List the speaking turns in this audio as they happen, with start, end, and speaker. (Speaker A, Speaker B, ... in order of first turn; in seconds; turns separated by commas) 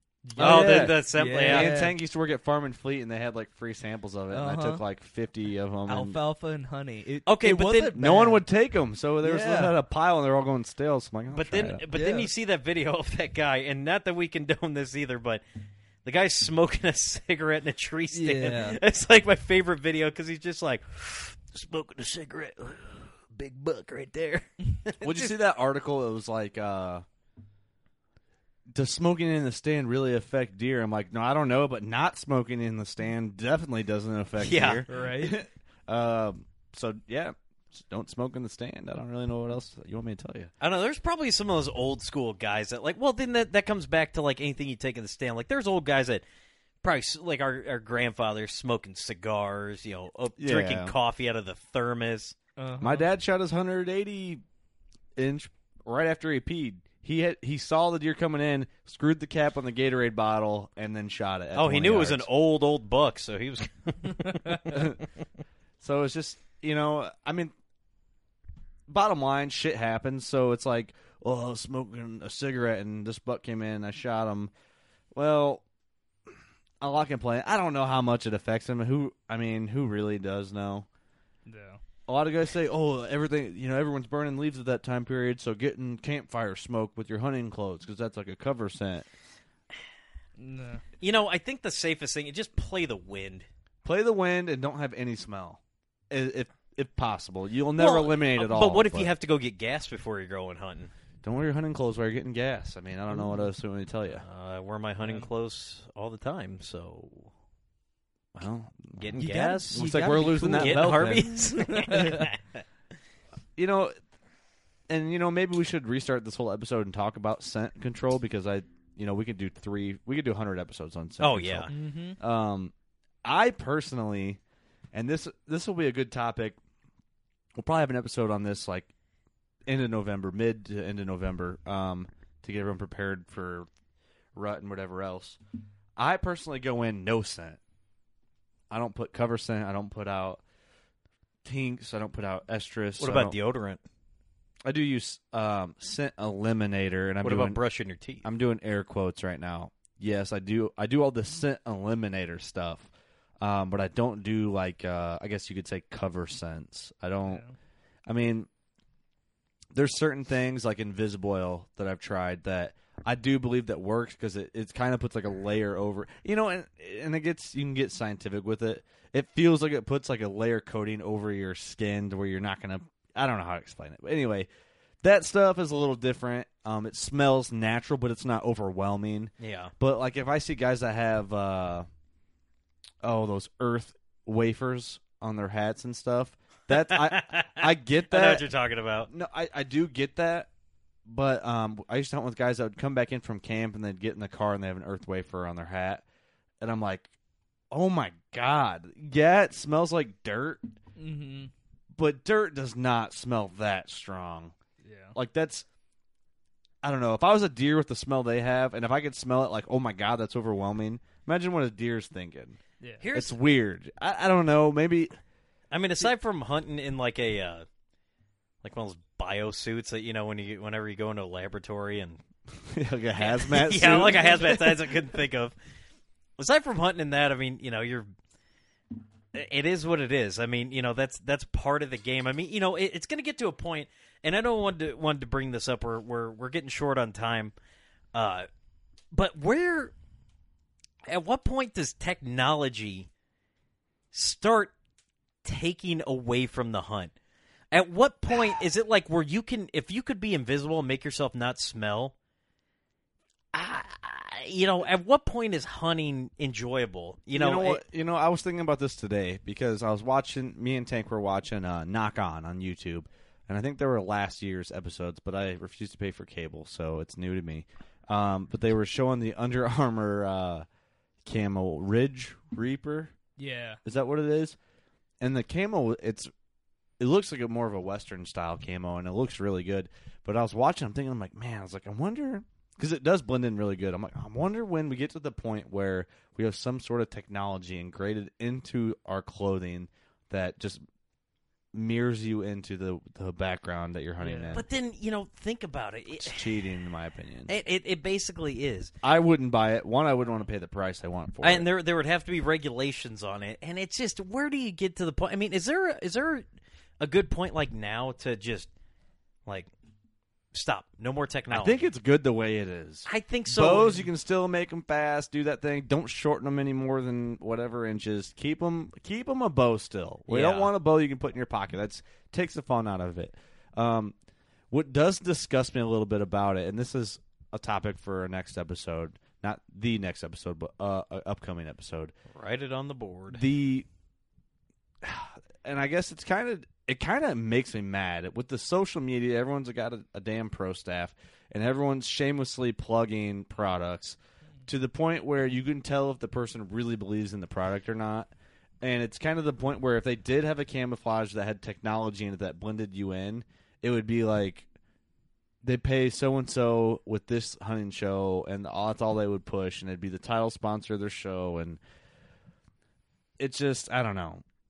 Speaker A: 0.2-1.9, Speaker B: 0.3-6.2, Speaker C: 0.4-1.7, Speaker A: 4.3-4.8, Speaker A: 5.9-8.4, Speaker C: 7.2-8.0, Speaker B: 7.9-11.8, Speaker A: 9.2-9.7, Speaker C: 11.3-15.4, Speaker A: 11.9-12.3, Speaker C: 16.0-25.3, Speaker A: 18.1-18.8, Speaker B: 25.0-27.0, Speaker B: 28.7-40.5, Speaker C: 34.4-34.8, Speaker A: 34.9-35.4, Speaker C: 40.6-46.2, Speaker C: 46.8-52.3, Speaker B: 50.4-50.9, Speaker A: 52.6-53.1, Speaker B: 52.8-54.4, Speaker B: 55.1-62.3, Speaker C: 61.5-64.9, Speaker B: 64.7-65.0, Speaker B: 65.8-67.5, Speaker B: 68.9-74.5, Speaker B: 75.1-75.6, Speaker B: 76.8-80.9, Speaker A: 81.5-81.8, Speaker B: 82.1-89.0, Speaker A: 90.4-90.8, Speaker C: 91.0-93.5, Speaker B: 93.8-99.1, Speaker C: 97.8-100.9, Speaker B: 101.2-104.2, Speaker C: 104.2-107.3, Speaker B: 108.3-111.2, Speaker C: 109.0-112.6, Speaker A: 109.2-112.3, Speaker B: 113.5-113.9, Speaker B: 114.9-121.7, Speaker C: 121.2-121.7, Speaker A: 121.7-122.2, Speaker B: 122.2-122.7, Speaker B: 123.2-124.4, Speaker B: 124.9-126.6, Speaker B: 127.5-128.9, Speaker B: 129.7-133.7, Speaker B: 134.3-135.4, Speaker B: 136.0-137.6, Speaker B: 138.7-140.4, Speaker B: 141.4-143.4, Speaker C: 143.0-143.8, Speaker B: 144.6-147.6, Speaker C: 147.2-148.3, Speaker B: 148.2-152.9, Speaker B: 153.4-157.4, Speaker A: 157.3-157.5, Speaker B: 158.1-158.5, Speaker B: 159.7-174.5, Speaker B: 175.0-181.9, Speaker C: 179.4-179.7, Speaker B: 183.0-188.5, Speaker C: 186.7-189.1, Speaker B: 189.0-190.5, Speaker B: 191.1-196.0, Speaker B: 196.6-197.1, Speaker B: 197.7-200.7, Speaker A: 201.0-201.5, Speaker B: 201.9-204.5, Speaker A: 204.8-205.2, Speaker B: 205.1-205.7, Speaker B: 206.8-212.6, Speaker C: 213.0-213.4, Speaker B: 213.1-215.1, Speaker C: 215.7-217.6, Speaker C: 218.6-222.2, Speaker B: 222.7-224.8, Speaker C: 223.2-225.5, Speaker C: 226.4-228.1, Speaker C: 229.3-237.5, Speaker C: 238.1-238.5, Speaker C: 239.1-239.9, Speaker C: 241.1-243.1, Speaker C: 244.1-244.7, Speaker C: 245.4-247.1, Speaker C: 247.7-252.1, Speaker C: 253.5-257.8, Speaker B: 257.3-270.6, Speaker B: 271.2-273.1, Speaker A: 273.4-273.8, Speaker B: 273.8-274.6, Speaker B: 275.2-276.3, Speaker B: 277.0-290.8, Speaker B: 291.7-294.6, Speaker A: 294.2-294.6, Speaker C: 294.5-296.5, Speaker B: 296.1-297.5, Speaker C: 297.5-298.9, Speaker B: 299.0-301.7, Speaker C: 301.4-306.4, Speaker C: 307.0-308.7, Speaker C: 310.5-311.8, Speaker B: 311.5-324.1, Speaker C: 313.1-314.1, Speaker C: 320.3-320.7, Speaker B: 324.7-332.1, Speaker C: 332.3-333.4, Speaker B: 333.3-333.9, Speaker B: 335.0-354.7, Speaker B: 355.6-361.8, Speaker B: 363.4-364.4